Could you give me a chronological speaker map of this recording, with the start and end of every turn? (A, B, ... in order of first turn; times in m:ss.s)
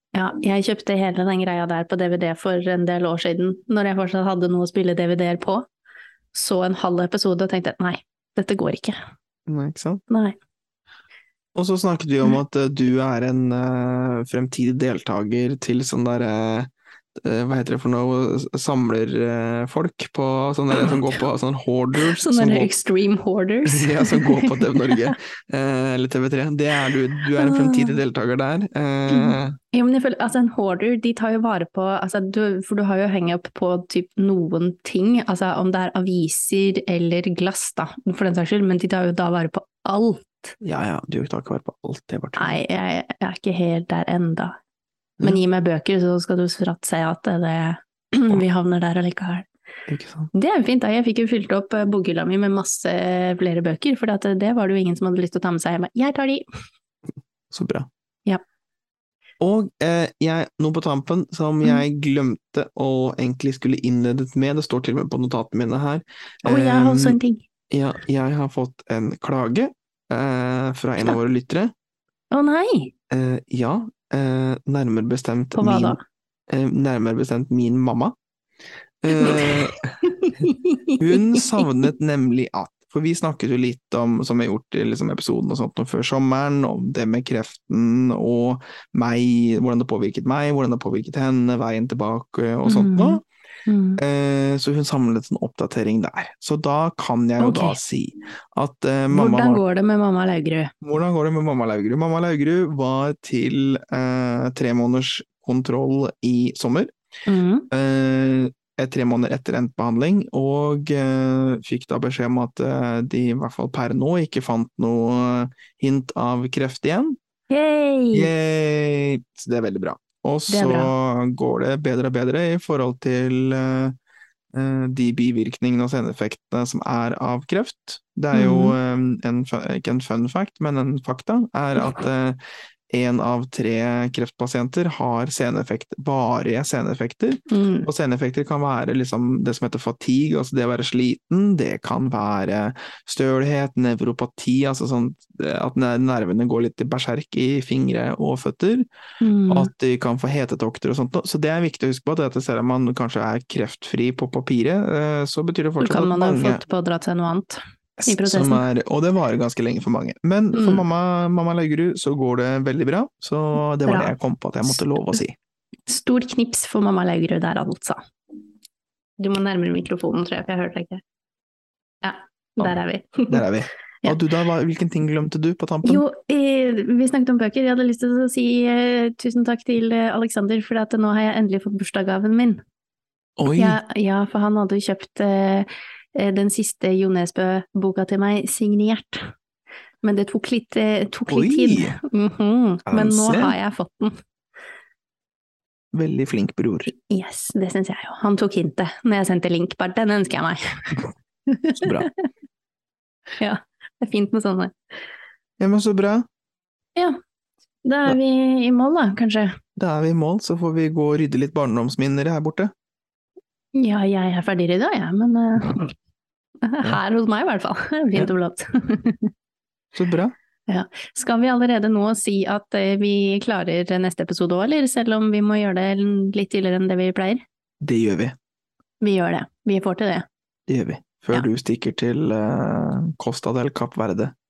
0:00.1-0:05.6 A
0:06.3-0:09.0 A
0:09.5-0:10.0 B
0:10.1-0:10.4 A
0:11.6-0:22.7 B
0:22.0-0:25.1 A
0:23.7-0:29.6 B
0:27.4-0:28.0 A
0:29.1-0:40.6 A
0:40.6-0:42.6 B
0:42.4-0:44.6 A
0:45.2-0:49.5 A
0:49.9-0:50.3 B
0:50.3-0:56.4 A
0:57.5-0:57.9 B
0:59.4-1:07.2 B
1:06.4-1:07.4 A
1:07.7-1:11.7 B
1:12.3-1:12.9 A
1:13.1-1:16.0 B
1:15.6-1:16.0 A
1:16.5-1:18.2 B
1:19.0-1:19.8 B
1:19.2-1:21.6 A
1:21.0-1:33.2 B
1:32.7-1:34.0 A
1:34.0-1:39.6 B
1:37.4-1:37.8 A
1:39.1-1:40.7 A
1:40.8-1:46.9 B
1:47.3-1:47.7 A
1:47.7-1:57.2 B
1:57.5-1:58.3 A
1:58.1-2:04.0 B
2:00.5-2:00.9 A
2:04.5-2:12.4 B
2:08.3-2:08.8 A
2:12.9-2:28.9 B
2:17.5-2:17.9 A
2:29.2-2:29.7 A
2:29.5-2:36.6 B
2:35.8-2:38.6 A
2:38.0-2:45.4 B
2:40.5-2:40.8 A
2:43.9-2:44.1 A
2:45.9-2:48.0 A
2:49.2-2:51.0 A
2:52.0-2:53.5 A
2:53.3-2:56.0 B
2:55.8-3:02.6 A
3:03.4-3:03.8 B
3:03.5-3:09.3 A
3:10.0-3:14.2 A
3:11.3-3:12.0 B
3:12.9-3:13.6 B
3:15.9-3:16.9 B
3:16.9-3:22.2 A
3:21.7-3:22.1 B
3:23.4-3:24.7 A
3:25.6-3:26.3 B
3:27.8-3:29.6 A
3:29.8-3:32.7 B
3:33.8-3:35.9 A
3:36.6-3:39.3 A
3:39.9-3:40.3 B
3:40.7-3:47.4 A
3:47.8-3:48.4 B
3:49.0-3:50.3 A
3:50.7-3:54.3 B